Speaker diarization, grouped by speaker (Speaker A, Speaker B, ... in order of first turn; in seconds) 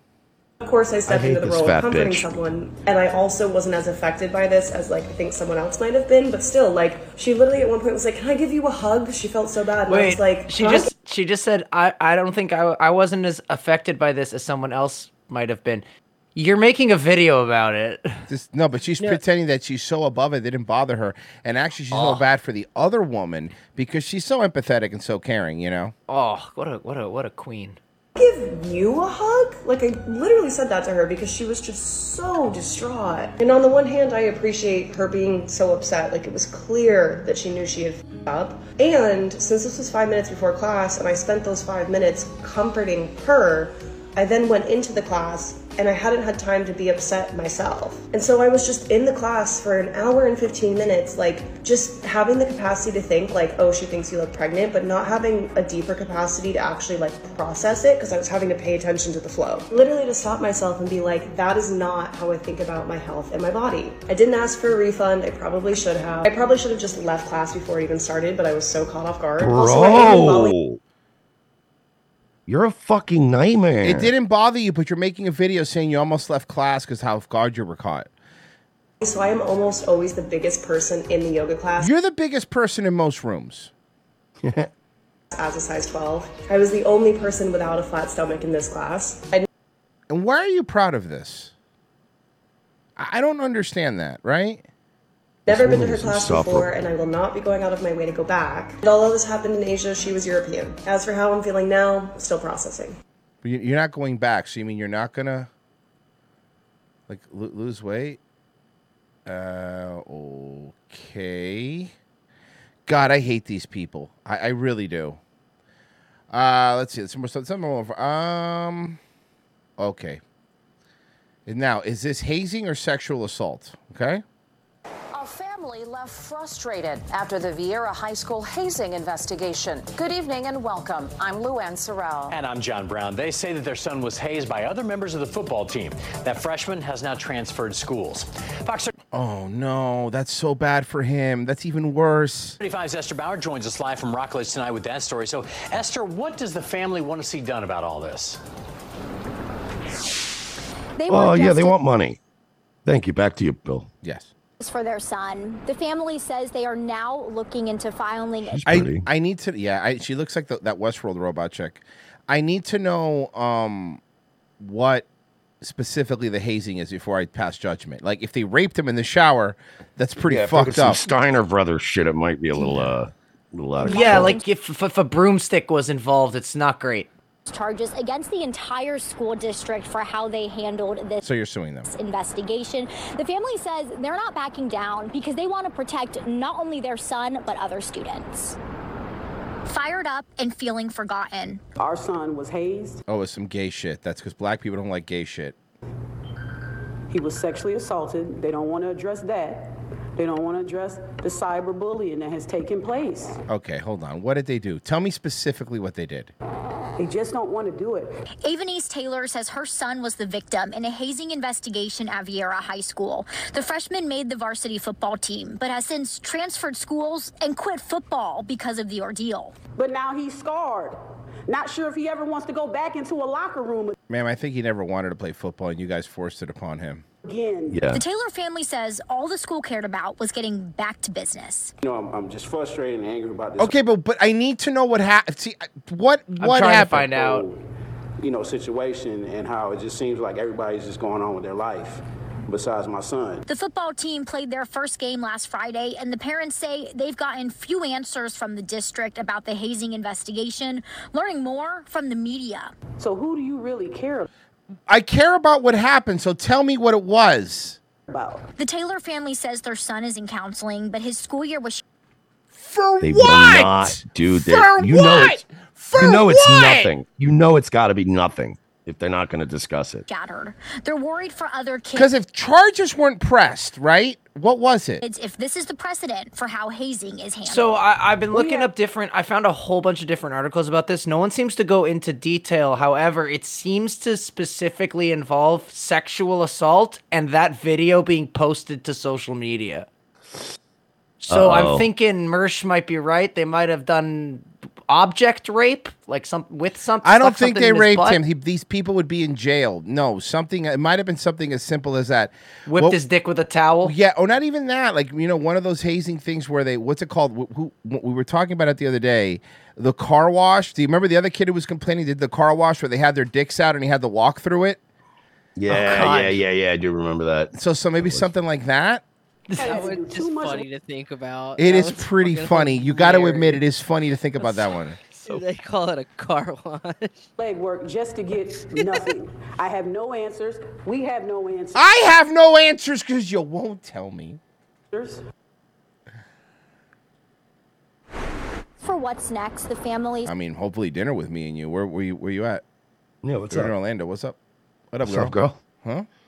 Speaker A: 0.6-10.9, 28.2-70.5, 79.0-81.9, 85.3-89.5, 95.5-103.0
Speaker B: 1.1-2.3, 69.4-70.8, 72.5-74.1, 84.4-84.7, 95.5-96.7, 151.1-152.2, 152.8-153.9, 158.5-159.1, 170.2-174.4, 227.7-228.0, 263.0-265.4, 265.9-270.1, 291.3-291.9, 315.6-318.3, 343.2-343.7, 345.0-345.6
Speaker C: 9.9-18.2, 21.9-22.2, 26.1-27.8, 173.9-177.1, 236.4-237.4, 277.4-289.9, 291.2-298.2, 302.7-303.9, 315.7-316.4
Speaker D: 18.3-25.9, 73.8-78.1, 81.8-83.7, 90.1-91.5, 93.0-94.7, 103.4-105.5, 107.1-108.2, 109.3-111.9, 112.9-115.2, 116.3-119.0, 119.8-120.2, 121.5-124.2, 139.1-142.6, 154.0-154.3, 158.7-164.0, 164.6-165.1, 165.6-171.0, 172.6-173.0, 181.2-181.9, 193.1-195.6, 203.5-206.3, 224.1-227.0, 233.6-237.1, 254.9-257.8, 262.5-266.9, 271.9-275.0, 297.0-303.0, 303.8-314.8, 317.6-319.0, 321.6-325.0, 331.8-334.4, 340.3-342.6, 343.5-344.4, 344.9-346.1
Speaker E: 127.0-129.8
Speaker F: 132.6-135.9, 136.4-138.1, 142.6-148.3
Speaker G: 151.0-151.8, 154.6-158.7, 173.8-174.5, 177.5-181.2, 181.9-188.6, 189.7-191.6, 208.4-219.5, 227.9-231.7, 243.5-252.7, 258.6-261.8, 270.1-272.1, 275.0-277.7, 338.8-340.3
Speaker H: 191.8-193.0, 197.2-199.5, 200.2-203.2, 207.1-208.1, 219.8-220.9, 221.5-223.9, 227.3-227.7, 253.1-254.3, 319.6-320.5, 327.4-331.7
Speaker I: 231.8-233.7, 237.0-237.6, 238.2-243.5
Speaker J: 319.6-323.6, 324.4-327.2